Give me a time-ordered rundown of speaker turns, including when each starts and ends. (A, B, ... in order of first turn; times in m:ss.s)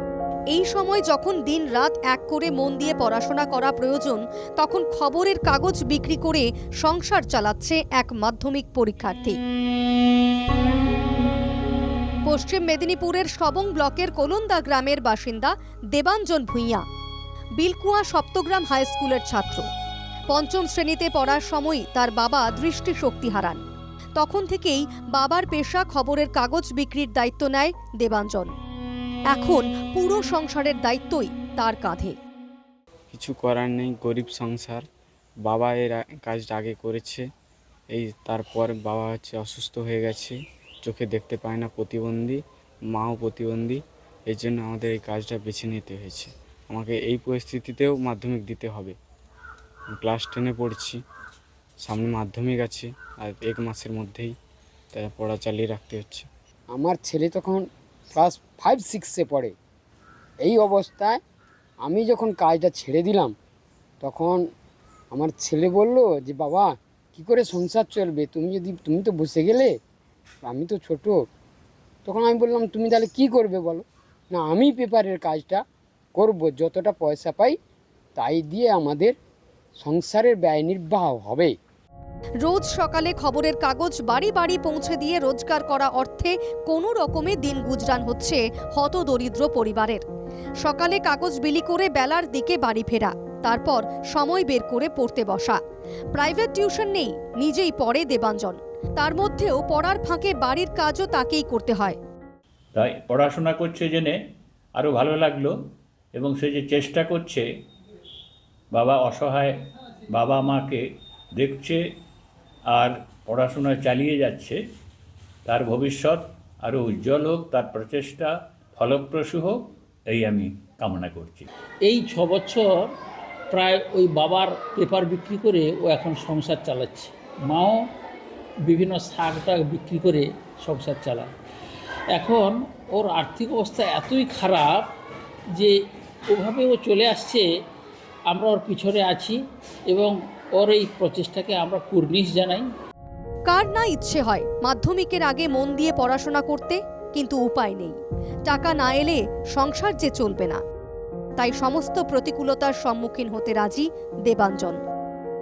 0:00.5-0:09.4 A
0:12.2-0:16.8 A
0:17.6-0:19.7 A
0:20.3-0:23.6 A
0:24.2-0:28.5 A
0:29.3-0:32.1 A
0:33.1-0:34.8 B
0:35.4-0:37.2 B
0:37.9-0:42.4 B
0:42.9-0:49.0 B
0:49.9-0:51.0 B
0:51.8-0:54.3 B
0:54.9-0:56.3 B
0:56.7-0:59.5 C
1:00.4-1:01.2 C
1:01.8-1:03.3 C
1:04.0-1:04.4 C
1:05.1-1:09.7 C
1:10.4-1:11.1 C
1:12.0-1:15.6 C
1:16.2-1:17.5 C
1:18.2-1:19.1 C
1:19.8-1:21.5 C
1:22.4-1:30.0 A
1:30.6-1:35.6 A
1:36.1-1:42.0 A
1:42.7-1:44.1 D
1:44.8-1:45.5 D
1:46.2-1:47.4 D
1:48.7-1:49.6 D
1:50.1-1:50.8 D
1:51.4-1:51.8 D
1:52.7-1:54.6 D
1:55.4-2:01.5 D
2:01.8-2:02.9 E
2:03.5-2:07.8 E
2:08.6-2:11.3 E
2:12.1-2:14.9 E
2:16.3-2:17.4 E
2:18.3-2:19.4 E
2:19.9-2:22.7 E
2:23.5-2:30.6 A
2:31.4-2:34.8 A